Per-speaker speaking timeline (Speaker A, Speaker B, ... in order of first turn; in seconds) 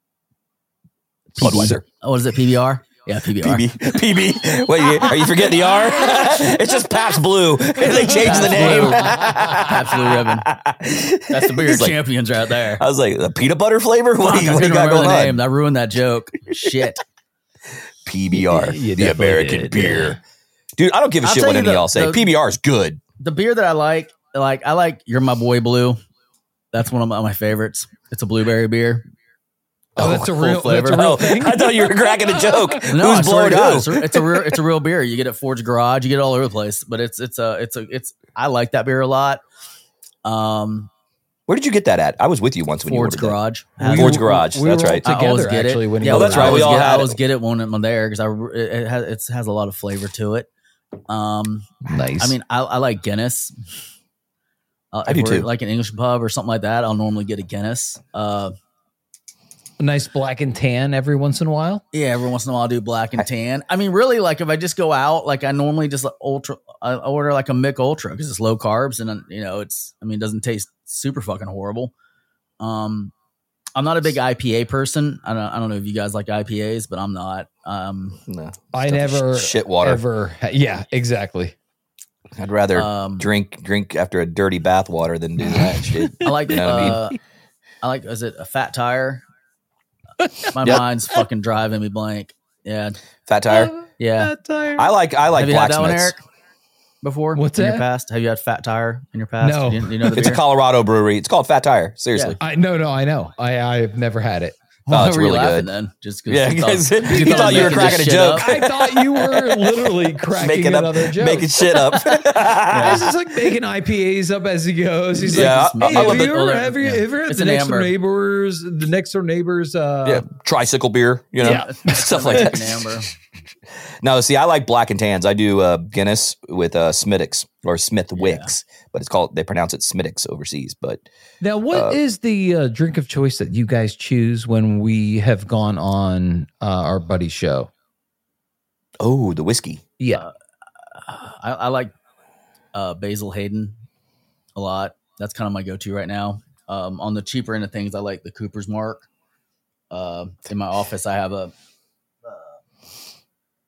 Speaker A: 1.3-1.8, 7.9-9.7, 18.3-20.2, 30.0-32.8, 43.8-46.8, 51.9-52.4, 59.8-61.8, 78.7-81.5, 85.4-87.1, 90.2-90.6, 93.5-94.9, 97.3-97.8, 99.4-100.2, 102.4-104.5, 107.0-112.1, 112.7-120.2, 121.4-122.6, 131.4-137.7, 140.0-140.2
Speaker B: 1.4-1.8, 3.4-12.0, 12.8-15.4, 18.0-20.2, 20.8-23.0, 29.9-30.3, 30.9-34.5, 41.5-45.1, 46.0-47.2, 55.1-55.5, 78.2-80.0, 82.3-87.0, 93.3-93.7, 94.8-96.1, 100.2-102.4, 104.9-105.7, 106.3-113.1, 115.3-116.4, 120.0-122.6, 124.0-131.0, 131.7-132.0, 139.0-139.8
Speaker C: 1.4-4.0, 8.1-10.5, 11.3-12.8, 14.2-17.0, 21.2-22.3, 23.2-26.0, 26.7-29.0, 30.0-31.1, 32.9-39.4, 40.2-40.9, 42.8-44.3, 45.0-50.5, 51.1-53.5, 54.9-58.5, 61.9-71.9, 72.6-73.1, 73.7-78.2, 82.7-83.3, 86.2-87.2, 87.8-89.2, 90.5-93.0, 94.0-94.3, 95.3-96.2, 97.0-100.4, 104.8-108.5, 112.7-113.0, 115.3-117.9, 121.4-123.1, 128.1-128.5, 140.9-141.9, 142.7-143.8, 144.5-149.1, 149.9-151.5